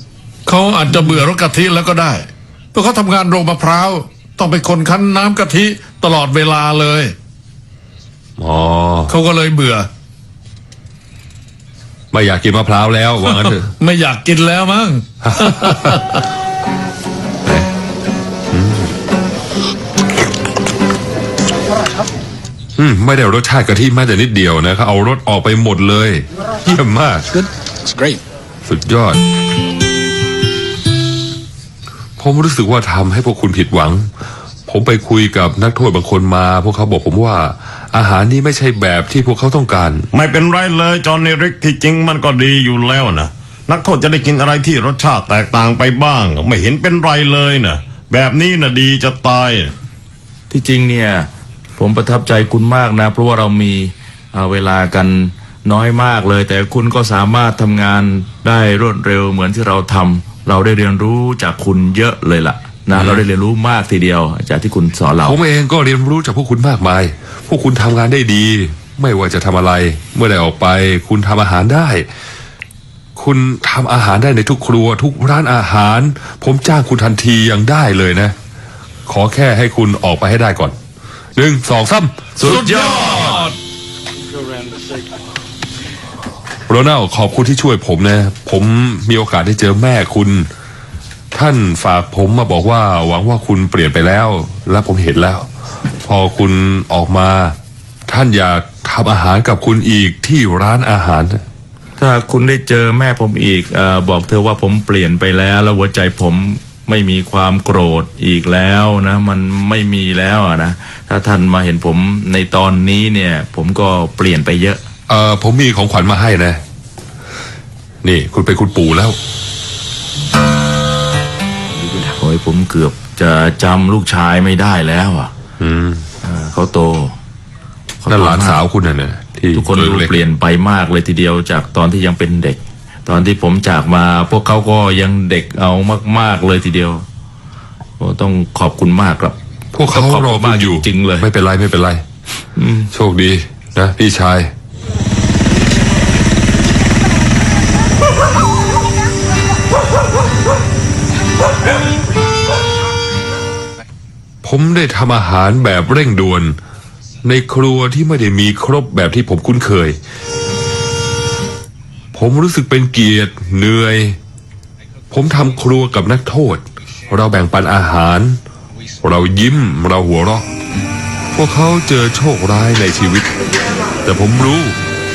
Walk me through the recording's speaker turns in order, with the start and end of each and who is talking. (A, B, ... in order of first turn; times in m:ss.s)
0:00.4-0:07.1 A
0:08.4-0:09.1 B
0:09.1-0:09.9 A
0:12.1-0:13.7 B
0:13.8-0:16.2 A
0:15.2-0:16.0 B
0:18.5-0:18.9 B
0:22.8-0:27.4 B
0:28.6-0:29.2 B
0:32.2-0:34.1 B
0:34.7-0:40.1 B
0:40.1-0:49.7 C
0:50.5-1:05.4 D
1:02.9-1:03.2 B
1:05.2-1:12.1 B
1:13.2-1:18.3 B
1:19.1-1:20.8 B
1:21.4-1:22.2 B
1:22.4-1:23.4 C
1:22.4-1:23.6 A
1:22.4-1:23.4 D
1:26.7-1:30.5 B
1:31.3-1:35.5 B
1:36.0-1:37.6 B
1:38.1-1:41.4 B
1:42.0-1:54.8 D
1:55.1-1:56.6 B
1:58.0-1:59.2 B
2:01.8-2:05.3 D
2:05.6-2:06.0 B
2:06.2-2:07.2 D
2:08.0-2:08.6 D
2:08.1-2:10.2 B
2:09.5-2:17.0 D
2:18.0-2:21.2 D
2:19.7-2:22.0 B
2:22.6-2:22.9 D
2:22.9-2:24.5 B
2:34.4-2:36.6 B
2:37.2-2:40.0 B
2:42.1-2:44.2 B
2:45.1-2:48.4 B
2:49.0-2:50.5 B
2:51.3-2:53.3 B
2:54.0-2:54.8 B